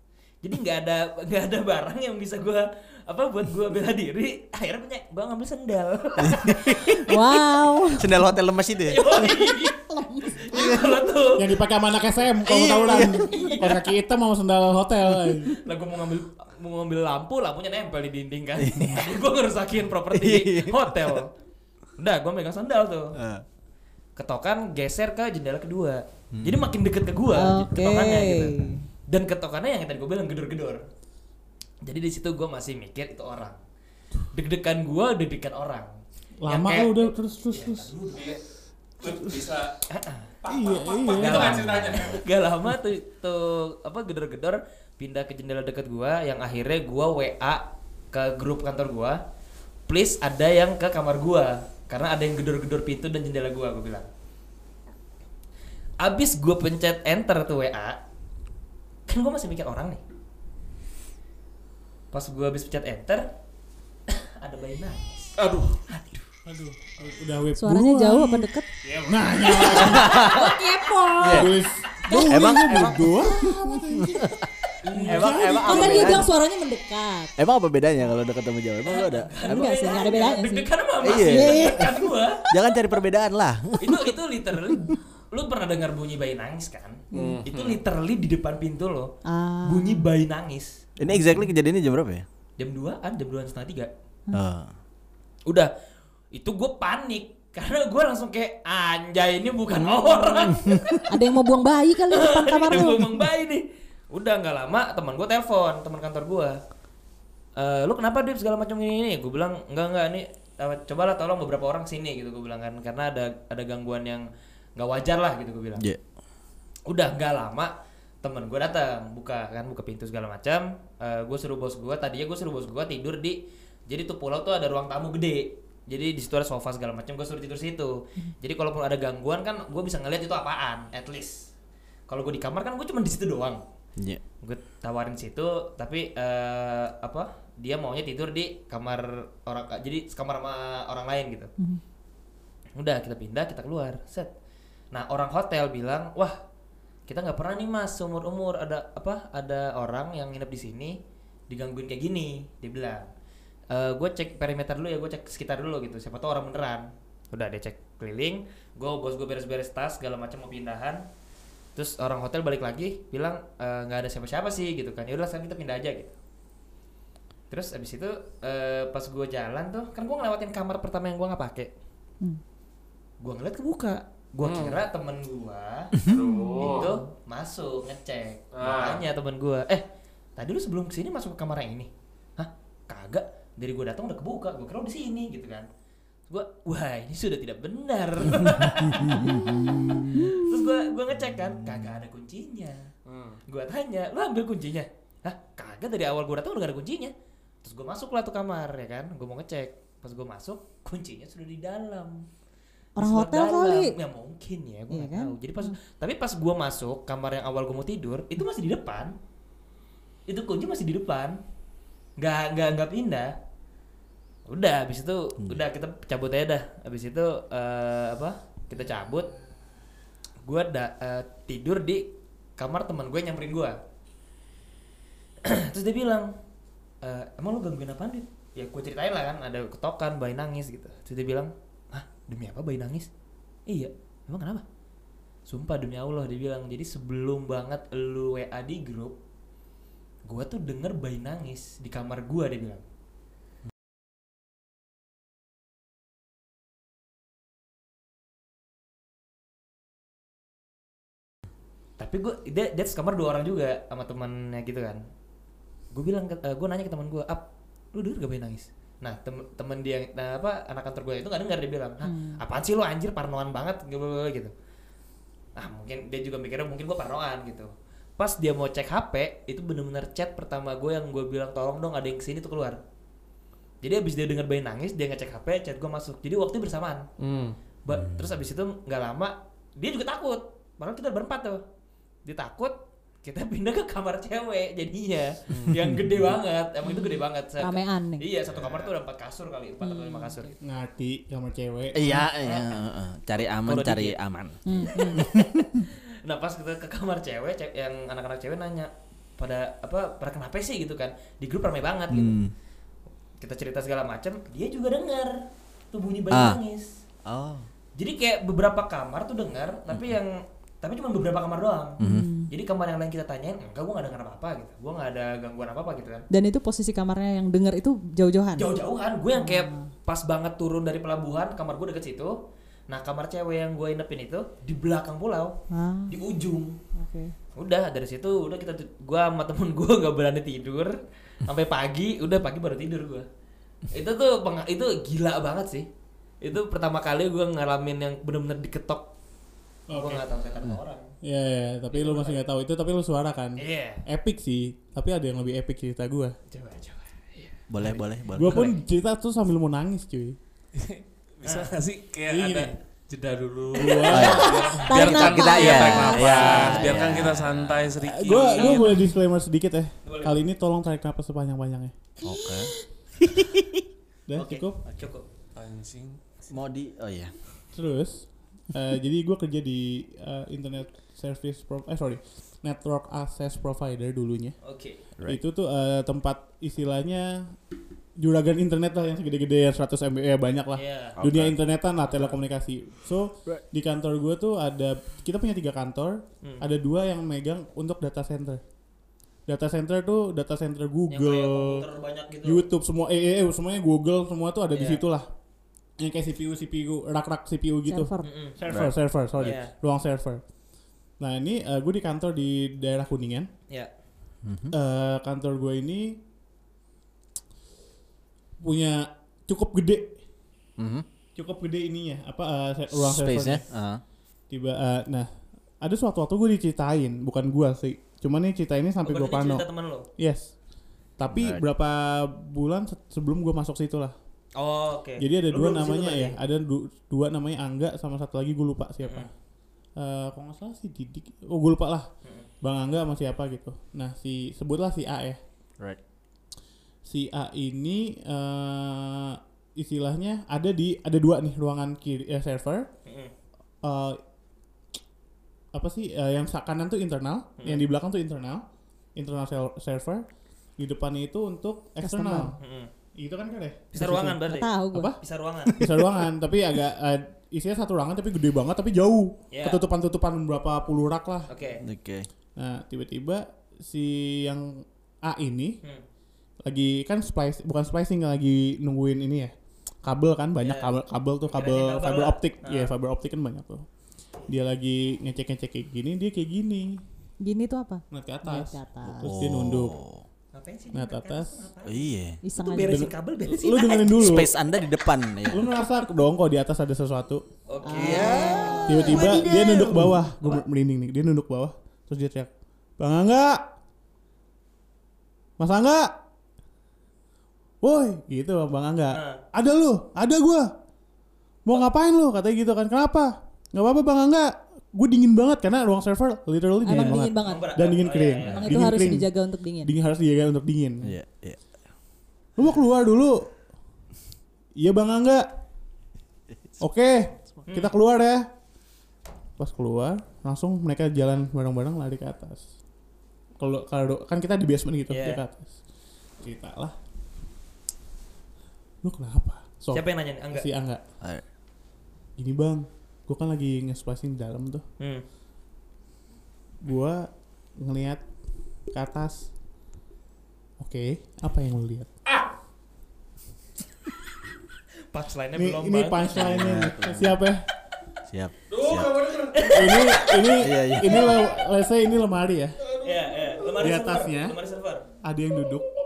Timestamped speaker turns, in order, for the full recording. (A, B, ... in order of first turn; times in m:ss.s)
0:00.4-0:07.0 A
0:06.2-0:07.2 B
0:07.0-0:08.2 C
0:07.9-0:09.3 B
0:08.9-0:11.5 A
0:09.3-0:10.9 C
0:10.5-0:10.9 B
0:11.4-0:15.6 D
0:12.4-0:13.5 B
0:13.0-0:13.8 A
0:15.6-0:21.3 A
0:18.6-0:19.2 B
0:20.1-0:21.2 B
0:22.0-0:23.2 A
0:23.2-0:23.4 B
0:24.2-0:30.8 A
0:26.3-0:26.7 B
0:27.3-0:28.9 C
0:31.8-0:33.6 A
0:34.3-0:35.9 A
0:36.4-0:37.9 D
0:36.5-0:38.4 A
0:38.1-0:38.4 E
0:39.0-0:39.8 E
0:39.9-0:40.4 A
0:40.4-0:42.2 E
0:40.5-0:41.8 D
0:41.1-0:49.2 A
0:49.9-0:54.1 A
0:56.0-0:58.0 A
0:59.1-1:00.0 A
1:02.1-1:03.3 A
1:04.1-1:06.3 A
1:05.4-1:05.8 E
1:06.4-1:08.5 D
1:07.6-1:08.7 C
1:08.8-1:09.1 E
1:09.0-1:10.5 D
1:09.8-1:10.5 B
1:09.9-1:11.4 A
1:10.2-1:11.5 C
1:11.2-1:11.5 B
1:11.2-1:14.4 D
1:12.1-1:12.6 C
1:12.3-1:13.1 B
1:13.3-1:13.8 C
1:14.0-1:14.4 B
1:14.9-1:16.2 A
1:14.9-1:16.3 D
1:15.1-1:16.3 B
1:15.1-1:17.3 C
1:17.4-1:19.8 B
1:18.8-1:22.5 A
1:19.4-1:22.0 C
1:21.0-1:21.9 B
1:22.5-1:24.2 B
1:23.8-1:30.8 A
1:27.1-1:27.4 C
1:27.1-1:27.8 E
1:29.3-1:30.1 C
1:31.0-1:32.3 B
1:32.6-1:33.9 A
1:34.3-1:34.7 B
1:36.3-1:41.1 A
1:40.4-1:41.0 B
1:41.1-1:43.3 C
1:42.1-1:46.6 A
1:47.6-1:55.8 A
1:56.9-2:11.5 A
2:12.1-2:13.6 A
2:14.4-2:21.5 A
2:22.8-2:24.3 A
2:24.9-2:26.4 A
2:27.1-2:31.0 A
2:31.5-2:33.1 A
2:33.7-2:41.1 A
2:41.8-2:46.2 A
2:47.5-2:51.7 A
2:53.2-2:55.9 A
2:54.4-2:54.8 E
2:56.0-2:56.9 E
2:56.6-2:56.8 C
2:56.6-2:59.8 A
2:58.5-2:59.0 E
3:00.4-3:05.7 A
3:06.3-3:09.4 A
3:08.9-3:10.2 B
3:09.2-3:10.7 C
3:10.1-3:12.9 A
3:13.1-3:13.4 E
3:13.5-3:22.3 A
3:23.0-3:24.0 C
3:23.0-3:29.2 A
3:24.9-3:25.8 C
3:30.3-3:31.4 A
3:32.2-3:33.3 A
3:34.5-3:39.3 A
3:40.4-3:43.8 A
3:45.4-3:46.3 A
3:47.0-3:53.1 A
3:53.7-3:54.6 A
3:55.5-3:59.2 A
4:00.3-4:02.8 A
4:12.0-4:15.0 A
4:15.9-4:24.5 A
4:22.0-4:22.4 C
4:25.6-4:32.8 A
4:33.8-4:37.1 A
4:37.2-4:37.6 E
4:37.8-4:41.6 A
4:42.3-4:50.5 A
4:46.8-4:48.3 C
4:49.8-4:50.4 C
4:50.6-4:52.2 D
4:51.9-4:55.8 B
4:52.4-4:52.8 A
4:53.6-4:54.2 A
4:54.6-4:55.3 C
4:54.7-5:02.4 A
5:02.1-5:02.5 B
5:03.4-5:07.0 A
5:06.3-5:06.6 B
5:07.3-5:07.7 B
5:08.0-5:16.3 A
5:12.0-5:12.3 B
5:12.0-5:12.5 C
5:16.3-5:18.7 C
5:18.6-5:22.4 A
5:19.3-5:19.9 C
5:22.9-5:26.8 A
5:25.7-5:26.2 C
5:27.0-5:27.3 C
5:27.6-5:33.3 A
5:33.9-5:35.9 A
5:36.4-5:39.1 A
5:39.9-5:40.2 D
5:39.9-5:41.1 A
5:41.2-5:46.4 D
5:41.9-5:42.4 A
5:43.6-5:44.1 A
5:46.5-5:48.7 A
5:47.7-5:48.7 B
5:48.3-5:50.4 D
5:50.8-5:58.9 E
5:51.4-5:51.8 A
5:52.3-5:52.7 D
5:53.7-5:54.5 D
5:53.9-5:54.6 A
5:54.1-5:57.9 B
5:54.3-5:56.9 C
5:56.4-5:57.1 A
5:58.0-6:01.9 D
5:58.4-5:58.9 A
6:00.0-6:00.4 A
6:02.2-6:03.8 B
6:02.3-6:02.6 A
6:04.3-6:04.8 D
6:04.4-6:05.3 A
6:05.6-6:06.2 E
6:06.5-6:07.3 B
6:07.7-6:14.6 D
6:14.6-6:15.0 A
6:15.2-6:17.5 D
6:18.2-6:28.6 D
6:20.8-6:21.2 A
6:21.2-6:21.5 B
6:29.5-6:31.9 D
6:31.1-6:32.7 A
6:32.4-6:35.3 D
6:34.7-6:35.0 A
6:36.0-6:40.4 D
6:37.9-6:38.3 C
6:38.2-6:38.6 A
6:38.7-6:39.5 B
6:39.4-6:39.7 A
6:41.2-6:43.5 D
6:44.4-6:44.7 B
6:44.7-6:46.2 D
6:48.6-6:50.2 D
6:50.8-6:51.0 B
6:51.4-6:53.6 D
6:52.9-6:54.0 B
6:54.5-6:55.3 D
6:55.8-6:59.6 D
6:59.0-7:00.1 A
7:00.2-7:00.5 D
7:01.2-7:04.2 D
7:01.3-7:01.6 B
7:04.6-7:06.4 A
7:05.2-7:09.3 D
7:10.0-7:12.1 D
7:12.6-7:15.4 D
7:17.0-7:22.9 D
7:23.1-7:23.3 A
7:23.8-7:24.2 D
7:25.7-7:28.6 D
7:27.6-7:27.9 A
7:29.2-7:30.3 D
7:30.8-7:32.6 D
7:32.0-7:32.6 C
7:32.6-7:32.9 A
7:33.2-7:35.2 D
7:33.9-7:35.8 A
7:34.4-7:35.2 C
7:35.7-7:36.2 B
7:35.7-7:41.5 D
7:39.5-7:39.8 A
7:41.5-7:41.8 A
7:41.8-7:42.3 B
7:42.6-7:45.8 D
7:46.6-7:49.5 D
7:50.0-7:53.9 D
7:50.6-7:51.0 A
7:51.5-7:52.9 A
7:54.5-7:57.0 D
7:57.4-7:59.4 C
7:58.1-8:00.0 D
7:59.2-8:00.2 B
8:00.5-8:04.8 A
8:00.9-8:01.7 D
8:01.8-8:02.4 B
8:02.4-8:03.1 C
8:02.8-8:04.5 D
8:04.2-8:05.7 B
8:05.5-8:07.4 D
8:07.7-8:10.6 A
8:07.8-8:09.4 C
8:07.9-8:08.9 B
8:08.9-8:13.7 D
8:15.6-8:16.2 D
8:17.8-8:20.7 D
8:19.1-8:19.4 A
8:21.7-8:31.2 D
8:26.8-8:27.7 C
8:27.4-8:29.0 A
8:28.5-8:29.9 C
8:31.0-8:31.6 B
8:32.6-8:33.4 D
8:34.8-8:35.5 D
8:36.8-8:38.5 D
8:37.7-8:37.9 A
8:39.6-8:42.6 D
8:43.6-8:45.7 D
8:45.1-8:45.4 A
8:46.4-8:47.0 D
8:49.0-8:51.0 D
8:49.9-8:50.7 A
8:52.4-8:54.8 D
8:55.0-8:55.2 A
8:56.8-8:58.2 D
8:58.9-8:59.5 D
9:00.8-9:02.1 D
9:05.1-9:06.4 A
9:05.6-9:07.6 D
9:06.3-9:07.4 B
9:08.3-9:09.1 B
9:08.7-9:09.9 E
9:09.5-9:10.5 A
9:09.7-9:12.8 D
9:10.6-9:11.4 B
9:13.0-9:15.1 A
9:13.8-9:14.6 D
9:15.2-9:15.9 D